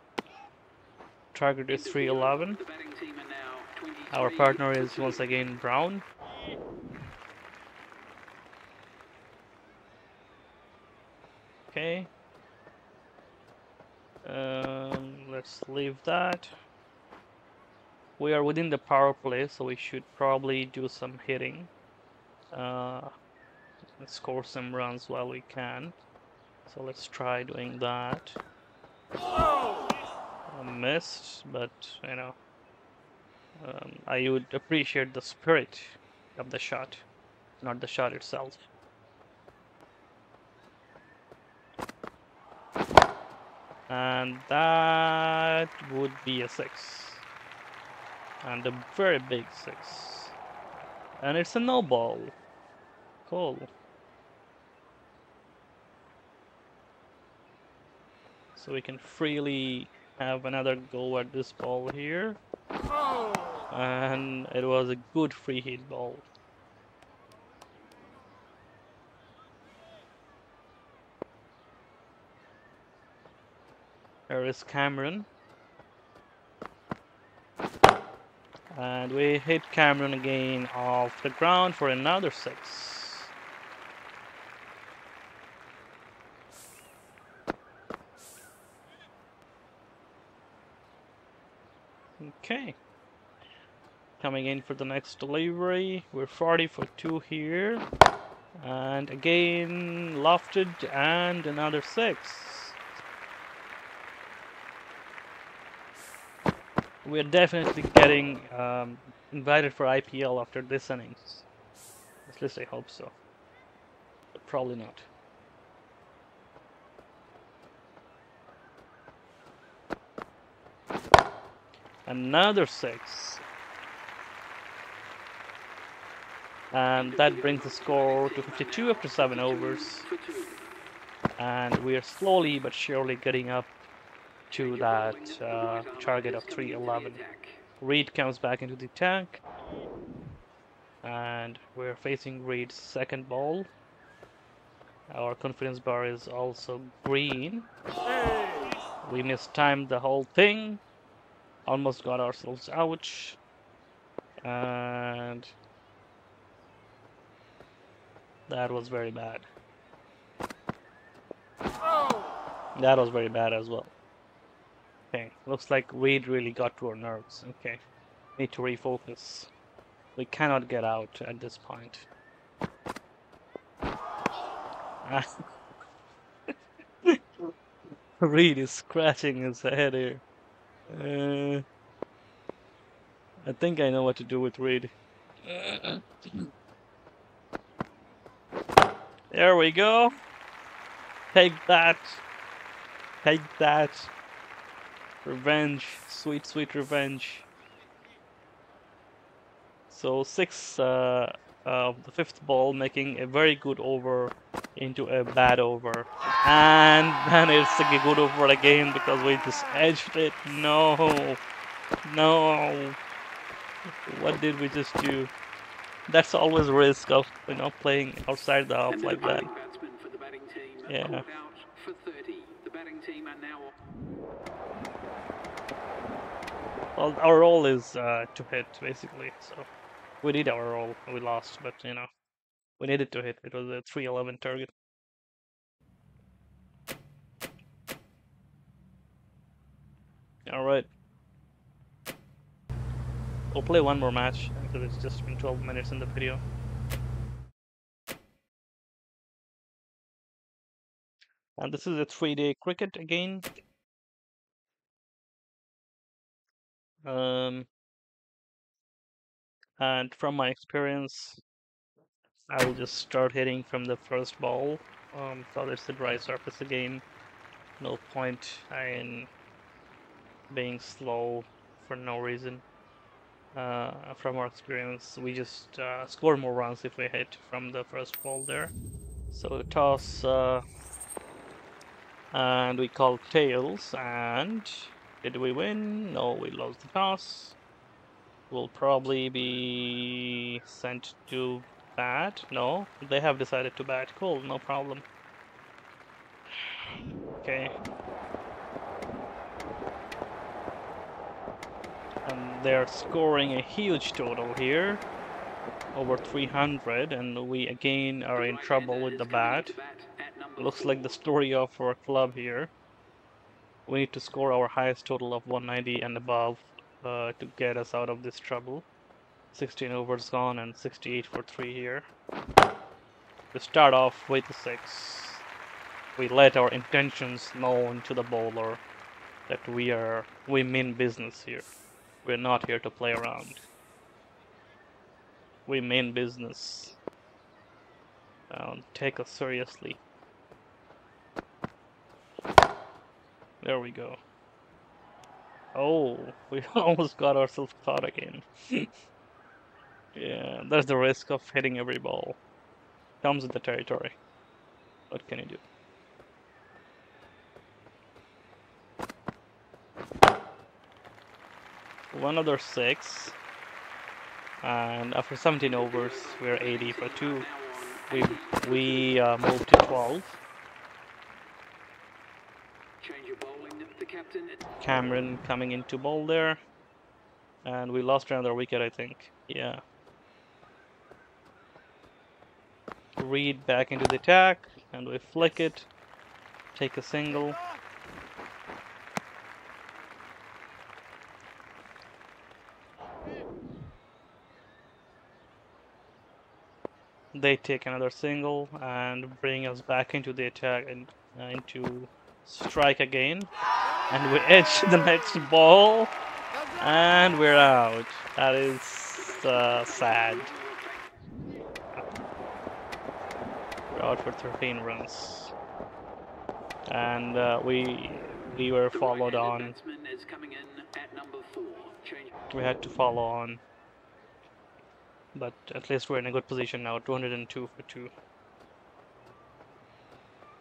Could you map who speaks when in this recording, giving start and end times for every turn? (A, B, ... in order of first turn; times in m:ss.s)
0:01.3-0:02.6 A
0:01.7-0:05.4 B
0:04.1-0:06.0 A
0:11.7-0:12.1 A
0:14.2-0:16.5 A
0:18.2-0:21.7 A
0:22.5-0:23.1 A
0:24.0-0:26.0 A
0:26.7-0:28.4 A
0:30.5-0:32.4 A
0:33.6-0:37.0 A
0:37.6-0:38.6 A
0:43.9-0:47.2 A
0:48.4-0:50.4 A
0:51.2-0:52.3 A
0:53.2-0:53.7 A
0:58.6-1:02.4 A
1:03.7-1:06.2 A
1:14.3-1:15.3 A
1:18.7-1:23.3 A
1:32.2-1:32.8 A
1:34.2-1:37.8 A
1:38.6-1:42.8 A
1:47.0-1:51.4 A
1:52.2-1:53.1 A
1:54.3-1:55.1 A
2:02.0-2:03.4 A
2:06.7-2:10.0 A
2:07.0-2:10.6 B
2:11.4-2:13.7 A
2:14.5-2:17.2 A
2:14.5-2:17.6 B
2:17.8-2:19.4 A
2:21.0-2:23.7 A
2:25.1-2:27.7 A
2:29.0-2:30.8 A
2:31.6-2:33.4 A
2:34.4-2:35.5 A
2:38.5-2:39.4 A
2:42.7-2:43.9 A
2:45.1-2:47.8 A
2:48.4-2:49.5 A
2:50.2-2:52.1 A
2:57.0-2:57.5 A
2:58.2-3:00.2 A
3:00.9-3:01.6 A
3:03.4-3:04.9 A
3:05.4-3:06.4 A
3:09.3-3:10.1 A
3:11.3-3:12.2 A
3:13.2-3:14.1 A
3:15.2-3:17.5 A
3:19.9-3:31.4 A
3:32.0-3:33.0 A
3:34.0-3:35.3 A
3:36.1-3:39.5 A
3:38.9-3:43.7 B
3:40.9-3:41.2 A
3:47.0-3:49.7 A
3:50.2-3:52.1 A
3:52.8-3:54.7 A
4:00.5-4:00.9 A
4:03.5-4:06.4 A
4:11.6-4:13.4 A
4:17.0-4:17.7 A
4:19.8-4:21.4 A
4:22.5-4:27.0 A
4:27.8-4:29.3 A
4:30.5-4:32.6 A
4:33.5-4:38.7 A
4:39.3-4:40.6 A
4:42.3-4:47.6 A
4:48.5-4:55.0 A
4:57.4-4:57.7 A
5:02.2-5:05.0 A
5:05.9-5:09.8 A
5:08.3-5:11.2 B
5:10.6-5:12.7 A
5:13.9-5:18.8 A
5:19.5-5:22.1 A
5:23.5-5:25.4 A
5:26.2-5:28.8 A
5:29.5-5:31.7 A
5:32.2-5:33.6 A
5:35.6-5:37.0 A
5:38.5-5:40.0 A
5:43.6-5:44.2 A
5:45.7-5:48.9 A
5:50.1-5:52.4 A
5:53.2-5:54.2 A
5:55.1-5:55.6 A
6:02.1-6:03.4 A
6:04.6-6:07.5 A
6:05.6-6:09.2 B
6:08.1-6:10.4 A
6:13.0-6:14.7 B
6:14.8-6:16.6 A
6:17.6-6:19.8 A
6:23.2-6:25.9 A
6:26.7-6:27.6 A
6:37.3-6:43.5 A
6:44.1-6:46.1 A
6:46.8-6:50.5 A
6:49.2-6:51.0 B
6:53.9-6:55.5 A
6:56.9-6:59.8 A
6:58.9-7:02.4 B
7:02.5-7:03.6 A
7:05.3-7:08.1 A